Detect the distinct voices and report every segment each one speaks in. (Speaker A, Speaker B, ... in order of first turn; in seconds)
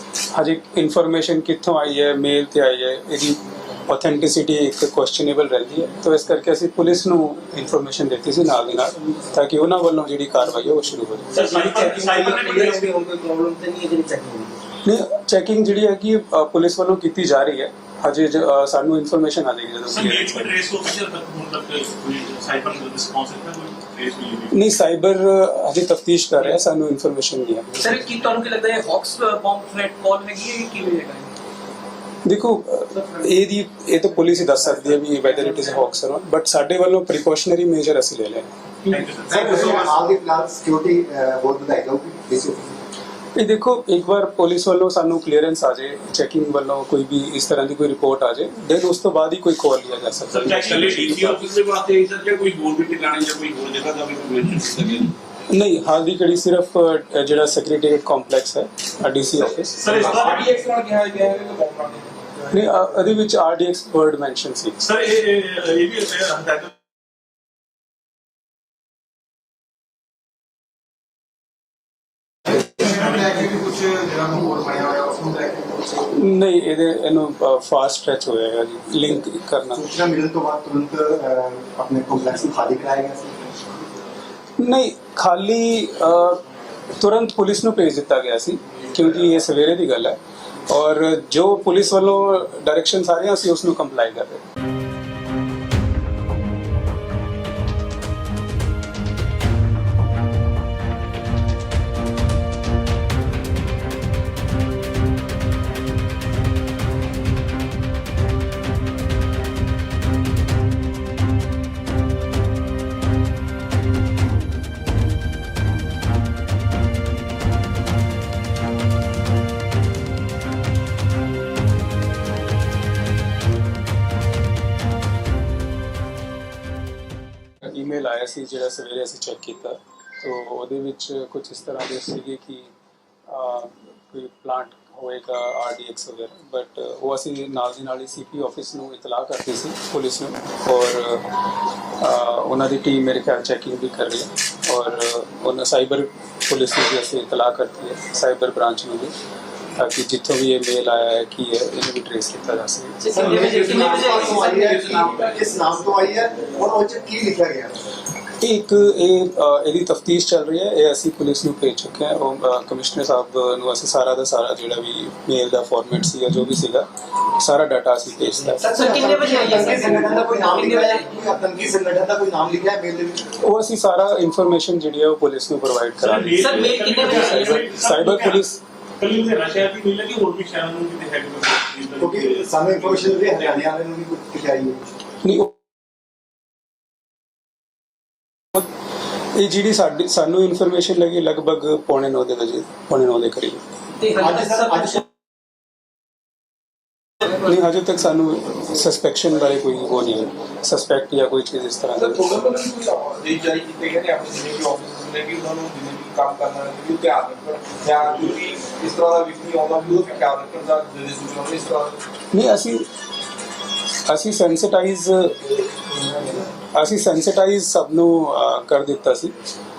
Speaker A: 0.3-11.4, 14.8-20.5, 24.5-27.7, 32.2-38.5, 43.4-51.4, 55.5-60.0, 62.5-64.8, 76.0-79.8, 84.6-86.4, 87.0-94.4, 127.6-132.7, 133.3-141.3, 142.0-149.1, 149.8-153.0, 158.4-168.6, 173.4-178.6, 185.2-185.5, 189.3-193.6, 197.3-202.2, 212.3-212.9, 214.1-215.4, 216.7-219.3
Speaker B: 11.3-12.9, 19.9-24.6, 38.9-39.9, 50.3-55.1, 59.8-60.5, 64.8-66.7, 72.9-73.3, 176.0-178.4, 179.0-183.2
Speaker C: 11.5-14.6
Speaker D: 27.8-31.3, 153.0-154.8, 168.6-171.0, 176.3-177.6
Speaker E: 39.3-42.8, 74.5-75.6, 79.8-83.3, 153.1-157.7, 168.6-173.2, 182.0-184.9, 194.2-195.0
Speaker F: 59.9-62.1, 202.0-212.0